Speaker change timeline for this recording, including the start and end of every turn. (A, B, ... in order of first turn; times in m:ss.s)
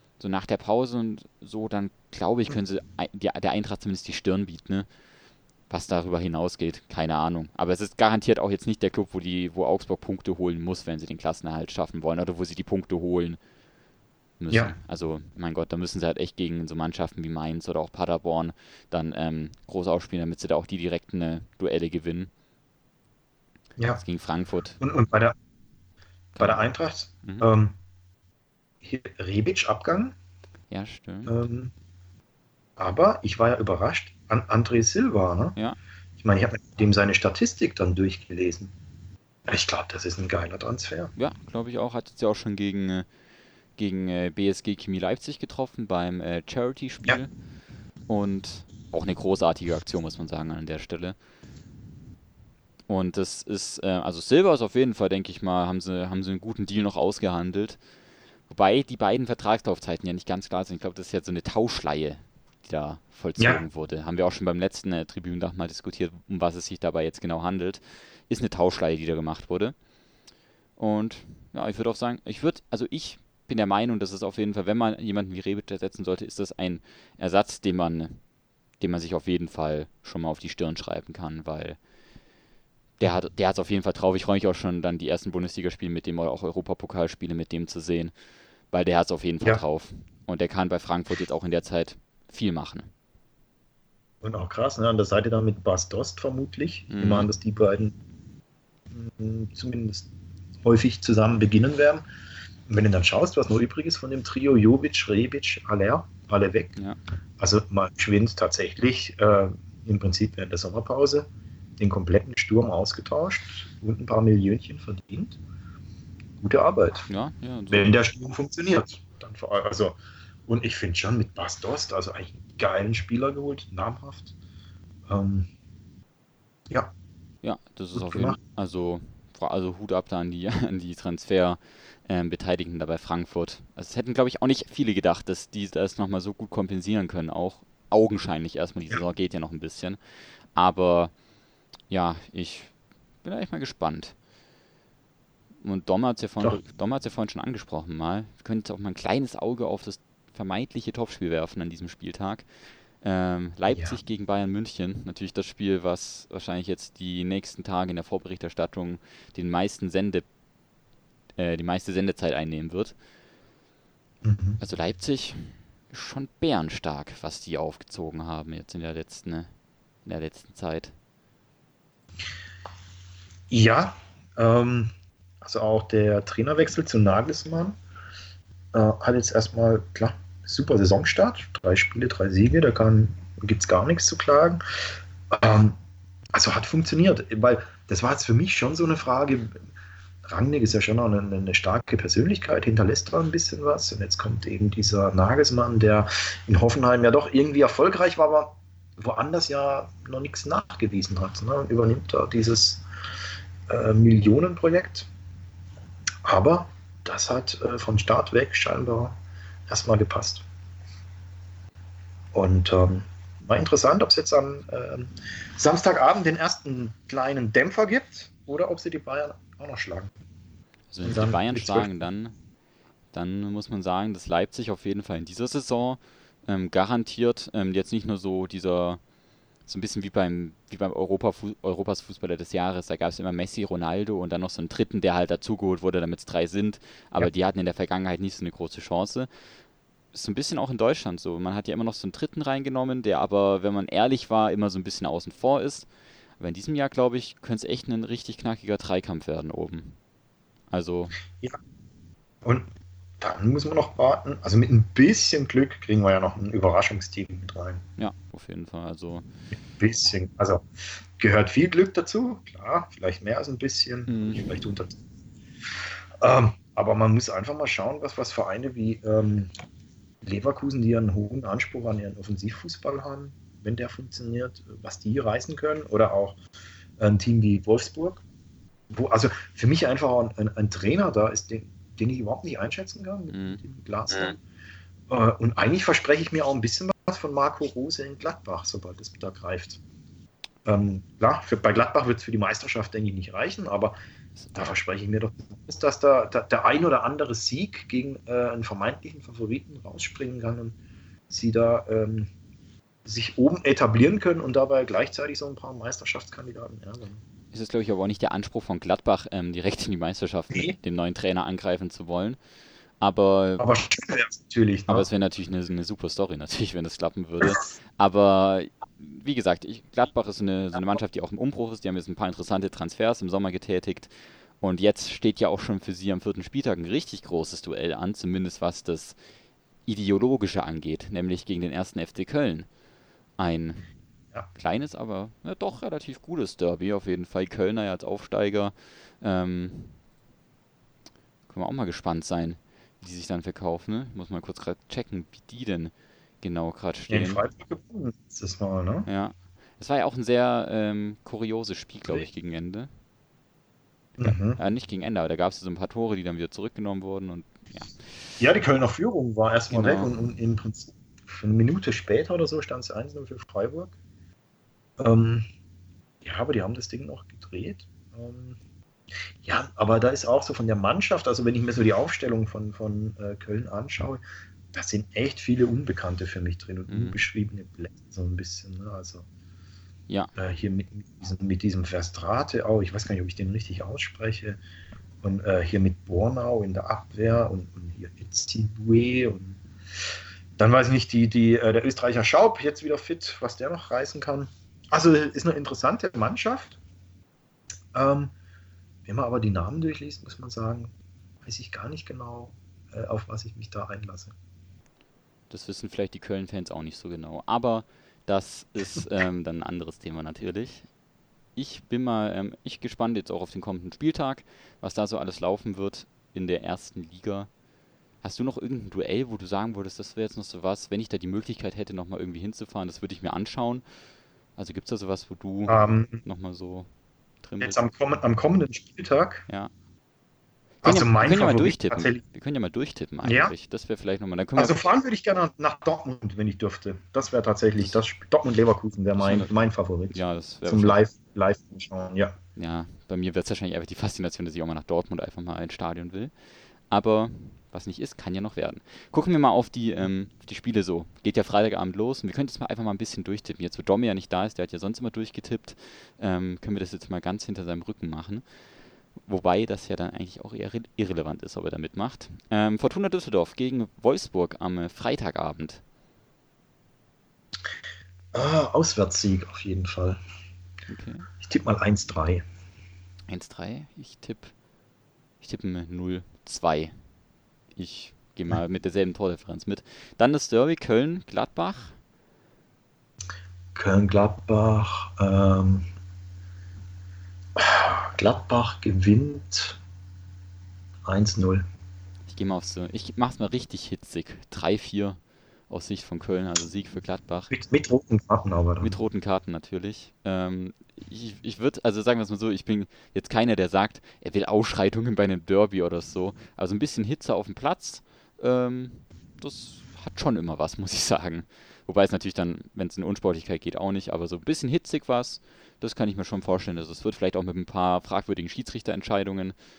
0:00.2-0:04.9 A
0:05.7-0:13.4 A
0:14.4-0:22.3 A
0:24.0-0:24.8 A
0:24.8-0:25.3 B
0:26.4-0:26.6 A
0:26.4-0:27.7 B
0:28.8-0:30.1 B
0:30.7-0:31.4 A
0:31.3-0:31.7 B
0:32.8-0:35.5 B
0:36.2-0:38.7 B
0:39.5-0:41.1 B
0:41.2-0:43.0 A
0:43.8-0:47.3 A
0:48.1-0:51.2 A
0:52.9-0:57.8 A
0:58.5-1:09.7 A
1:10.8-1:18.2 A
1:18.8-1:21.8 A
1:23.0-1:28.1 A
1:28.7-1:32.9 A
1:34.2-1:38.0 B
1:36.9-1:37.3 A
1:38.9-1:40.1 B
1:40.6-1:42.0 B
1:42.7-1:46.8 B
1:47.4-1:51.3 B
1:51.8-1:55.4 B
1:56.4-1:57.1 B
1:57.1-1:57.9 A
1:57.7-2:04.3 B
2:05.1-2:05.5 B
2:07.4-2:20.0 A
2:07.9-2:08.4 B
2:20.5-2:21.1 A
2:21.9-2:24.1 A
2:25.6-2:32.5 A
2:33.0-2:40.3 A
2:33.7-2:34.0 B
2:41.4-2:42.9 A
2:44.2-2:44.6 B
2:44.6-2:49.5 A
2:50.0-2:50.9 A
2:53.5-2:57.8 B
2:58.7-3:04.6 B
3:05.3-3:05.8 B
3:06.3-3:09.6 B
3:10.2-3:22.8 B
3:23.7-3:25.1 B
3:26.2-3:30.4 B
3:32.3-3:40.1 B
3:40.9-3:42.3 A
3:41.0-3:41.9 B
3:43.1-3:49.0 A
3:49.6-3:59.3 A
4:00.1-4:05.9 A
4:06.4-4:10.0 A
4:10.7-4:11.1 A
4:13.2-4:17.8 B
4:18.0-4:19.2 A
4:19.8-4:20.6 B
4:21.2-4:25.0 B
4:24.1-4:24.5 A
4:26.2-4:29.5 B
4:30.2-4:36.4 B
4:37.0-4:38.2 B
4:38.9-4:44.4 B
4:43.3-4:44.3 A
4:45.1-4:49.8 B
4:50.6-4:54.0 B
4:54.4-4:54.7 A
4:54.5-5:00.8 B
5:01.3-5:02.3 B
5:03.0-5:07.2 B
5:07.5-5:12.4 A
5:13.0-5:13.6 A
5:13.6-5:15.1 B
5:14.9-5:29.2 A
5:29.8-5:32.7 A
5:33.4-5:33.8 A
5:34.5-5:40.0 A
5:41.5-5:47.4 A
5:47.1-5:49.1 B
5:49.0-5:52.9 A
5:54.2-5:54.6 B
5:54.2-5:57.9 A
5:58.4-6:03.9 B
5:59.7-6:00.1 A
6:05.0-6:05.4 B
6:06.2-6:08.6 B
6:09.4-6:14.2 B
6:14.7-6:19.2 B
6:16.9-6:17.2 A
6:20.4-6:24.6 B
6:25.2-6:29.6 B
6:30.6-6:36.8 B
6:37.9-6:38.3 B
6:39.0-6:40.9 B
6:41.4-6:44.3 B
6:45.5-6:50.9 A
6:51.6-6:57.5 A
6:58.2-7:03.8 A
7:04.6-7:06.9 A
7:05.7-7:06.2 B
7:07.4-7:07.8 A
7:07.6-7:09.4 B
7:10.8-7:12.2 B
7:10.8-7:14.8 A
7:13.2-7:13.5 B
7:14.6-7:22.3 B
7:19.1-7:19.5 A
7:20.1-7:21.0 A
7:22.6-7:26.3 A
7:26.9-7:38.4 A
7:39.2-7:45.8 A
7:48.3-7:50.2 B
7:50.9-7:51.3 A
7:51.4-7:52.4 B
7:53.3-7:54.5 A
7:55.4-7:57.0 A
7:57.7-8:02.0 A
8:03.7-8:05.8 B
8:07.6-8:09.8 B
8:11.0-8:11.6 B
8:12.2-8:17.5 A
8:17.5-8:18.9 B
8:18.8-8:39.6 A